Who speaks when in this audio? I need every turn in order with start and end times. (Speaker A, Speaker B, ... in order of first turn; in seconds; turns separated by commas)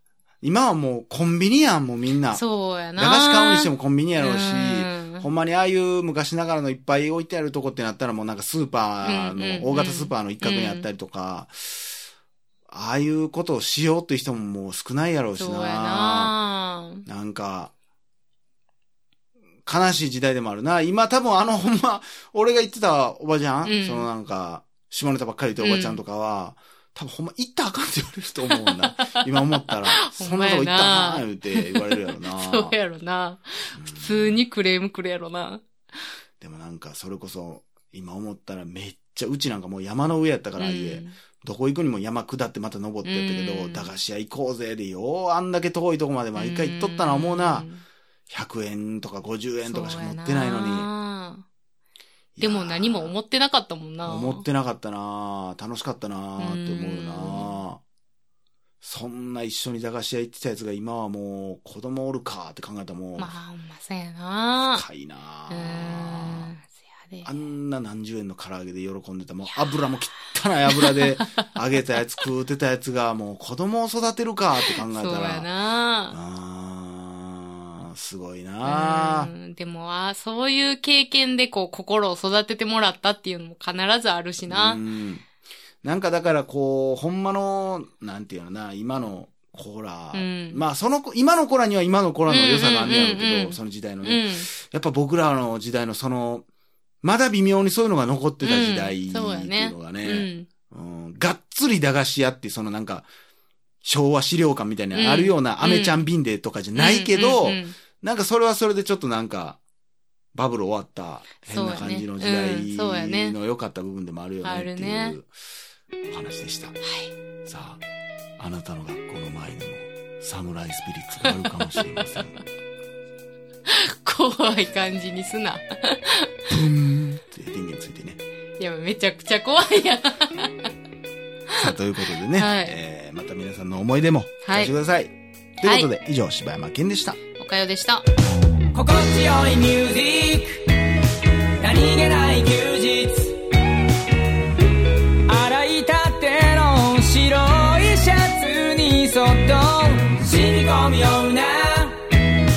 Speaker A: 0.4-2.4, Speaker B: 2.3-5.3, Speaker A: 3.0-11.9, Speaker B: 9.0-10.9, Speaker A: 12.7-16.3, Speaker B: 15.4-17.1, Speaker A: 17.1-17.7, Speaker A: 19.7-32.8, Speaker B: 23.6-24.1, Speaker B: 25.6-26.0, Speaker B: 28.5-35.6, Speaker A: 33.8-34.4, Speaker A: 36.4-47.7, Speaker B: 40.6-41.2, Speaker B: 43.0-44.0, Speaker B: 46.4-47.9, Speaker A: 48.3-50.9, Speaker B: 49.6-51.5, Speaker A: 52.4-53.2, Speaker B: 52.4-54.4, Speaker A: 54.0-57.8, Speaker B: 56.4-57.5, Speaker A: 58.8-63.3, Speaker B: 63.2-64.8, Speaker A: 64.7-66.5, Speaker B: 65.5-67.3, Speaker A: 67.2-75.5, Speaker B: 69.5-69.7, Speaker B: 70.7-71.5, Speaker B: 74.7-76.2, Speaker A: 76.1-79.3, Speaker B: 78.6-84.8, Speaker A: 84.5-85.2, Speaker A: 85.8-96.5, Speaker B: 90.1-90.6, Speaker B: 92.3-94.5, Speaker A: 97.0-103.1, Speaker B: 98.4-100.5, Speaker A: 103.8-109.6, Speaker B: 104.9-106.1, Speaker B: 106.8-107.8, Speaker A: 110.3-115.3, Speaker B: 111.5-113.4, Speaker B: 114.4-115.2, Speaker A: 116.1-116.8, Speaker B: 116.8-117.1, Speaker A: 117.5-117.8, Speaker A: 118.4-122.4, Speaker B: 121.3-122.0, Speaker B: 123.7-126.3, Speaker A: 126.5-128.2, Speaker B: 128.6-130.7, Speaker B: 131.5-131.8, Speaker A: 131.6-137.2, Speaker B: 132.3-132.8, Speaker B: 134.4-134.7, Speaker B: 135.6-135.9, Speaker B: 137.4-138.0, Speaker C: 138.7-140.7, Speaker C: 141.6-143.4, Speaker C: 145.3-152.1